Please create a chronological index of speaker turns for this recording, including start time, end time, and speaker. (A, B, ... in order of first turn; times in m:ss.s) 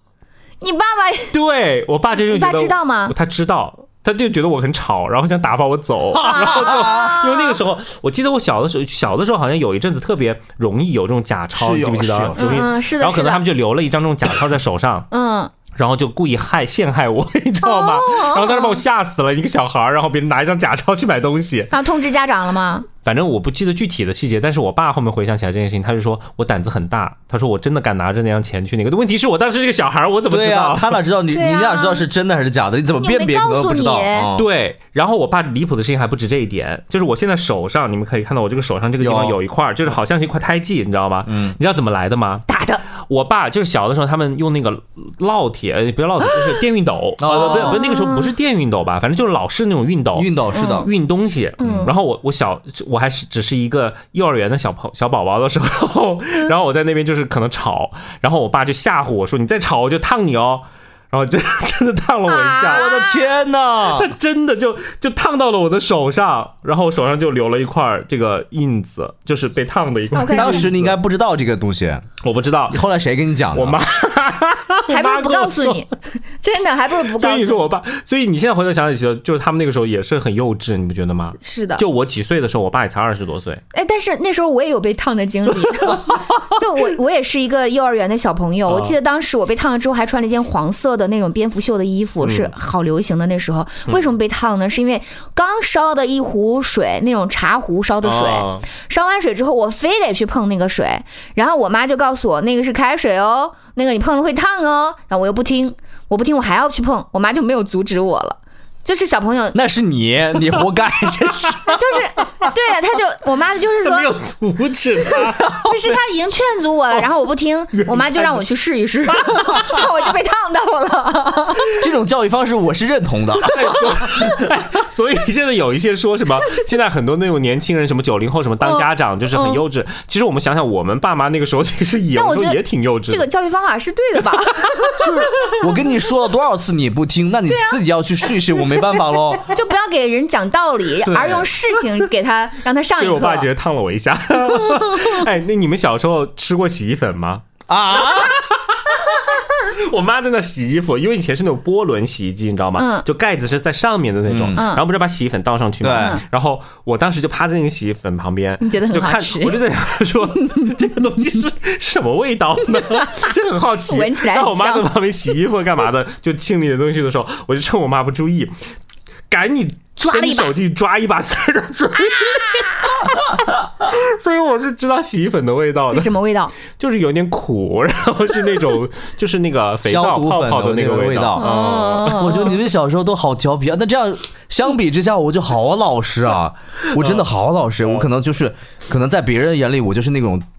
0:00.6-0:01.4 A
0:01.3-0:15.1 B
0:02.2-0:03.1 A
0:06.2-0:07.0 C
0:06.2-0:07.6 A
0:11.5-0:12.7 C
0:12.4-0:13.4 A
0:15.1-0:15.5 A
0:15.7-0:21.7 B
0:17.6-0:18.8 A
0:21.7-0:22.9 A
0:23.0-0:31.0 B
0:30.3-0:34.5 C
0:31.3-0:32.0 A
0:33.0-0:34.3 A
0:34.3-1:02.9 B
0:39.0-0:39.4 C
0:41.2-0:41.6 C
0:42.5-0:42.8 A
0:46.3-0:46.6 A
0:47.2-0:47.8 C
0:47.3-0:48.3 A
0:50.1-0:50.9 C
0:50.5-0:50.9 A
0:51.6-0:51.9 A
1:02.3-1:03.2 A
1:02.6-1:04.1 C
1:03.8-1:10.9 B
1:10.1-1:10.7 A
1:10.3-1:12.1 C
1:12.2-1:12.8 B
1:12.7-1:13.8 C
1:13.5-1:15.8 B
1:14.9-1:17.6 A
1:17.1-1:23.6 B
1:21.4-1:21.8 A
1:23.7-1:49.6 A
1:28.7-1:29.0 B
1:32.2-1:32.5 B
1:38.0-1:38.6 B
1:49.5-1:51.8 C
1:51.4-1:52.2 B
1:51.7-1:54.1 A
1:53.8-1:55.9 B
1:55.5-2:01.8 A
1:57.7-1:58.4 B
1:59.2-1:59.9 B
2:01.7-2:03.9 C
2:03.5-2:13.3 B
2:08.6-2:09.6 A
2:12.1-2:15.6 A
2:15.0-2:19.5 C
2:17.5-2:17.8 A
2:19.5-2:23.5 A
2:21.0-2:21.5 C
2:23.0-2:27.5 B
2:27.7-2:28.4 C
2:28.0-2:48.5 B
2:32.8-2:33.0 A
2:34.3-2:34.6 C
2:34.6-2:34.8 A
2:35.8-2:36.2 C
2:35.9-2:36.2 A
2:38.6-2:39.6 A
2:43.9-2:44.9 A
2:49.3-3:02.5 B
2:50.0-2:50.5 A
2:55.9-2:56.5 A
2:59.8-3:01.5 C
3:01.4-3:02.6 A
3:02.0-3:10.4 C
3:06.9-3:07.2 B